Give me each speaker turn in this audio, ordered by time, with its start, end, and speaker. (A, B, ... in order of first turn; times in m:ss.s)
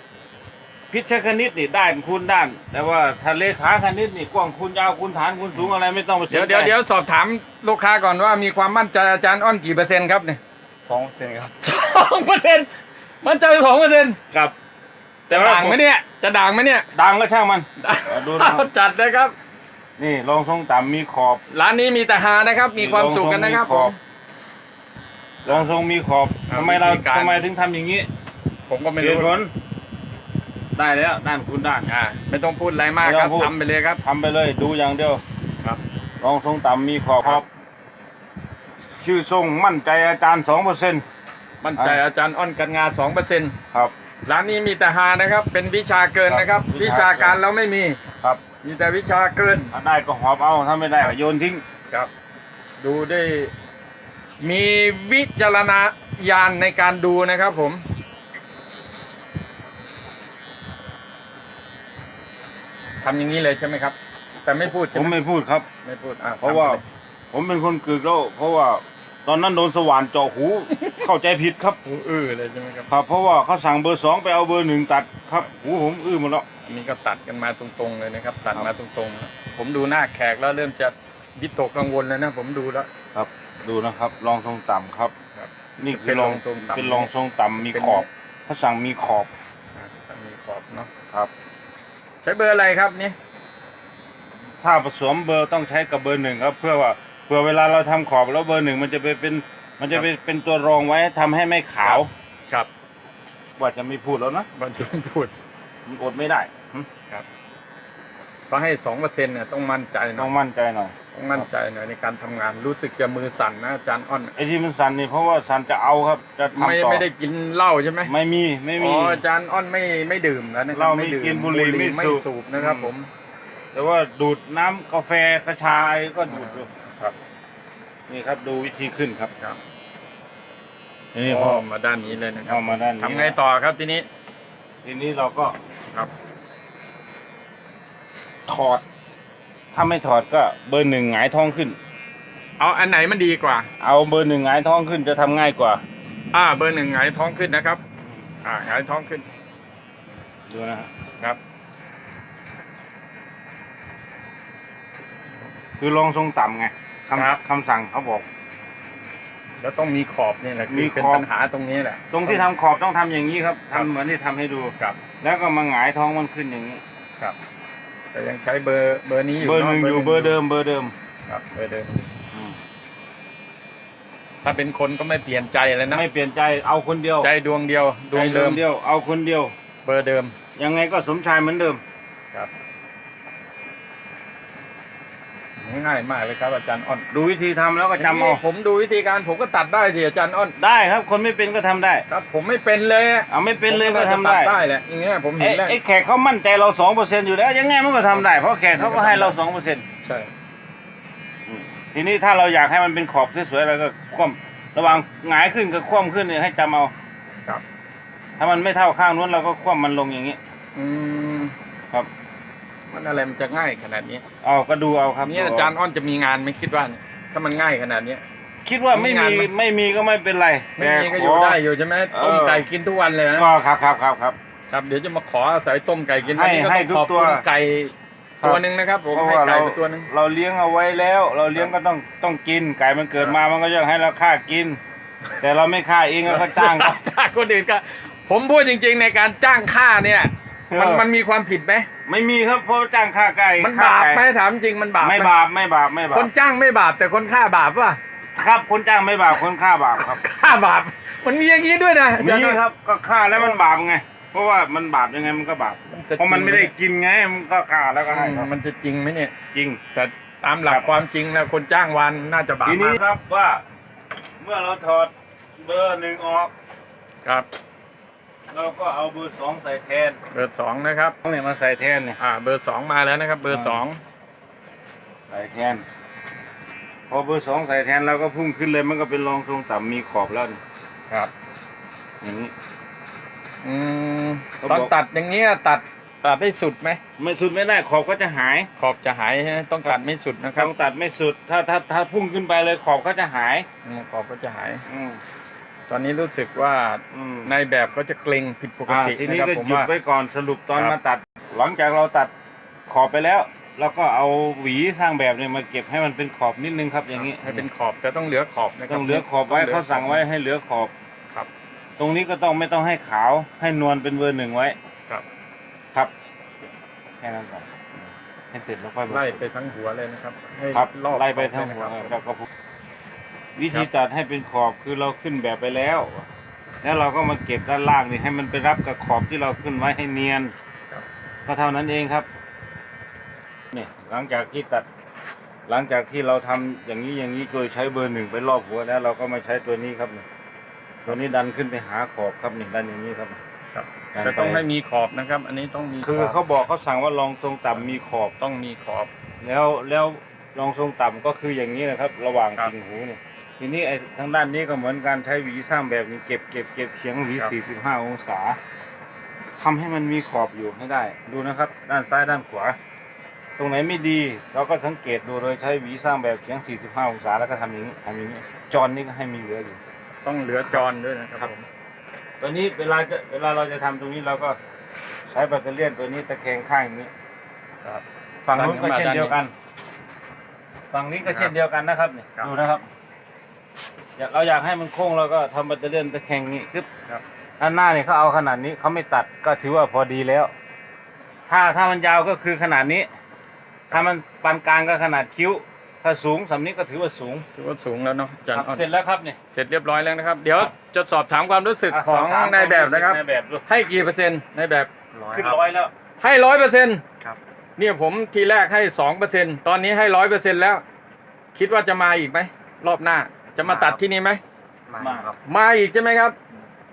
0:00.9-0:06.7 A
0:06.3-0:10.4 B
0:10.9-0:11.5 C
0:11.6-0:12.7 B
0:13.2-0:14.2 B
0:15.3-0:16.9 B
0:15.3-0:15.8 A
0:16.9-0:18.7 A
0:17.8-0:19.4 B
0:20.0-0:21.4 A
0:21.5-0:24.0 B
0:22.8-0:23.9 A
0:25.4-0:28.1 A
0:26.5-0:27.5 B
0:28.7-0:29.4 B
0:29.0-0:29.5 A
0:30.8-0:31.9 A
0:31.9-0:34.0 B
0:33.0-0:35.2 A
0:36.2-0:37.5 A
0:39.0-0:41.0 A
0:41.6-0:43.6 B
0:41.8-0:42.0 A
0:44.2-0:48.0 B
0:46.3-0:47.4 A
0:48.6-0:49.7 B
0:49.7-0:51.6 A
0:52.8-0:53.5 B
0:54.4-0:57.8 B
1:03.0-1:05.2 B
1:04.9-1:05.7 A
1:05.8-1:06.8 B
1:06.4-1:06.8 A
1:07.3-1:11.8 A
1:10.7-1:11.1 B
1:11.8-1:12.9 B
1:12.9-1:16.4 A
1:16.6-1:22.9 B
1:23.1-1:25.1 A
1:25.4-1:28.1 B
1:25.8-1:29.3 A
1:29.8-1:30.9 B
1:32.2-1:33.2 B
1:34.6-1:42.1 A
1:41.8-1:42.7 B
1:43.6-1:44.5 A
1:44.6-1:45.3 B
1:45.9-1:46.9 A
1:48.5-1:50.3 B
1:50.2-1:51.5 A
1:51.1-1:54.3 B
1:54.4-1:57.1 A
1:56.6-1:58.1 B
1:58.1-1:59.2 A
1:58.8-2:03.1 B
2:00.7-2:02.9 A
2:03.7-2:06.7 A
2:06.3-2:07.2 B
2:08.1-2:09.3 A
2:11.1-2:11.6 A
2:11.2-2:14.1 B
2:12.5-2:13.4 A
2:14.8-2:15.6 A
2:18.5-2:18.8 A
2:19.7-2:21.8 A
2:22.6-2:23.7 B
2:23.8-2:25.8 A
2:26.3-2:27.8 B
2:28.4-2:29.2 B
2:30.5-2:30.9 A
2:35.8-2:38.3 A
2:39.6-2:42.5 B
2:40.7-2:41.3 A
2:42.1-2:46.8 A
2:48.1-2:50.4 B
2:49.4-2:50.9 A
2:51.3-2:52.1 B
2:52.3-2:52.6 A
2:54.4-2:56.0 B
2:55.9-2:57.3 A
2:57.2-2:58.6 B
2:58.1-2:59.5 A
2:59.8-3:00.4 B
3:00.6-3:01.8 A
3:05.6-3:07.1 B
3:07.1-3:08.4 A
3:08.0-3:10.6 B
3:10.6-3:12.0 A
3:12.1-3:15.8 B
3:13.3-3:14.6 A
3:15.4-3:19.8 A
3:18.8-3:19.4 B
3:20.0-3:20.3 B
3:21.5-3:26.9 A
3:28.4-3:30.4 A
3:30.8-3:31.6 B
3:32.9-3:34.2 B
3:34.4-3:35.7 A
3:35.3-3:38.2 B
3:38.6-3:41.6 A
3:38.9-3:39.5 B
3:40.8-3:43.5 B
3:42.1-3:42.7 A
3:43.4-3:44.4 A
3:44.7-3:50.1 B
3:46.2-3:47.4 A
3:48.4-3:54.8 A
3:55.4-3:57.0 A
3:56.3-4:01.9 B
4:00.7-4:01.1 A
4:02.1-4:04.2 A
4:03.6-4:05.3 B
4:05.0-4:06.3 A
4:06.1-4:08.0 B
4:08.4-4:10.2 A
4:10.0-4:12.6 B
4:12.2-4:18.5 A
4:15.9-4:16.7 B
4:18.0-4:19.3 B
4:19.5-4:19.8 A
4:19.9-4:23.0 B
4:20.6-4:20.9 A
4:22.6-4:23.6 A
4:24.4-4:26.5 A
4:28.5-4:30.2 A
4:30.3-4:31.2 B
4:31.2-4:32.2 A
4:32.2-4:34.0 B
4:33.5-4:33.8 A
4:35.3-4:35.9 A
4:37.1-4:40.6 A
4:42.2-4:42.5 A
4:43.6-4:47.0 B
4:44.6-4:44.9 A
4:47.2-4:48.7 A
4:48.8-4:50.7 B
4:50.6-4:53.7 A
4:53.8-4:54.8 B
4:54.9-4:55.2 A
4:55.9-4:59.9 B
4:57.1-4:57.5 A
4:58.9-5:02.3 A
5:02.9-5:07.7 A
5:07.2-5:10.2 B
5:08.9-5:10.9 A
5:12.0-5:14.8 A
5:17.2-5:19.4 A
5:19.1-5:22.2 B
5:20.7-5:22.5 A
5:23.6-5:26.3 A
5:26.8-5:30.5 A
5:31.5-5:32.3 A
5:33.7-5:34.9 A
5:35.7-5:40.2 A
5:41.0-5:43.4 A
5:43.7-5:46.4 B
5:44.1-5:44.6 A
5:46.0-5:48.4 A
5:48.4-5:49.1 B
5:49.4-5:58.6 A
5:59.6-6:02.8 A
6:03.6-6:09.8 A
6:10.2-6:11.7 B
6:12.4-6:14.6 A
6:15.3-6:17.1 A
6:17.8-6:19.4 B
6:18.4-6:19.5 A
6:20.9-6:22.9 A
6:21.2-6:21.5 B
6:24.2-6:26.9 A
6:27.6-6:30.5 A
6:31.5-6:33.1 A
6:33.9-6:37.5 A
6:37.5-6:38.9 B
6:38.5-6:39.4 A
6:39.5-6:44.9 B
6:41.9-6:43.6 A
6:45.1-6:45.6 C
6:45.3-6:45.9 A
6:46.2-6:47.0 B
6:47.8-6:50.8 B
6:51.6-6:54.4 B
6:53.6-6:54.0 C
6:54.9-6:55.4 C
6:55.0-6:55.4 A
6:55.4-6:56.4 B